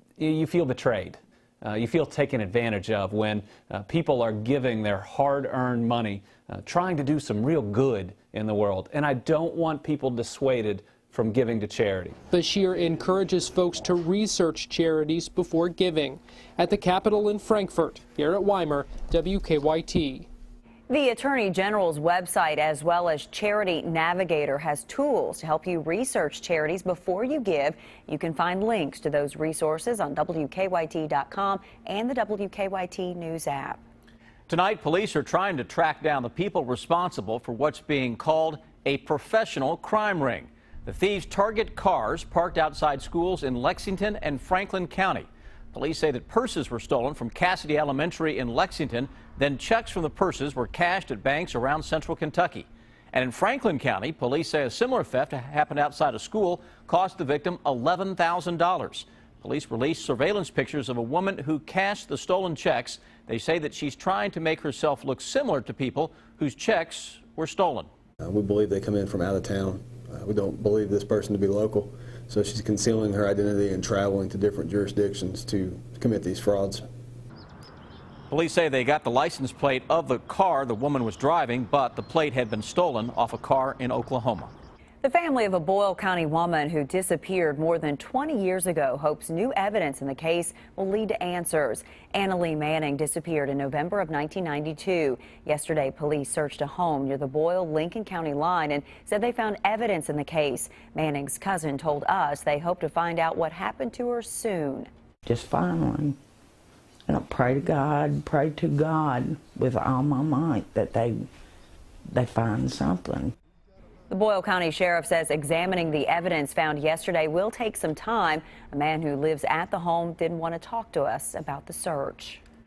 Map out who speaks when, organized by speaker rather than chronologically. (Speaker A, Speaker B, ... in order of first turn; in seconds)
Speaker A: 0.2-12.2
Speaker B: 12.3-20.3
Speaker C: 20.9-33.8, 85.0-104.9, 114.1-122.4
Speaker D: 34.5-67.9, 78.3-84.5
Speaker E: 68.2-76.9
Speaker F: 105.3-106.2, 107.1-111.2, 112.1-113.3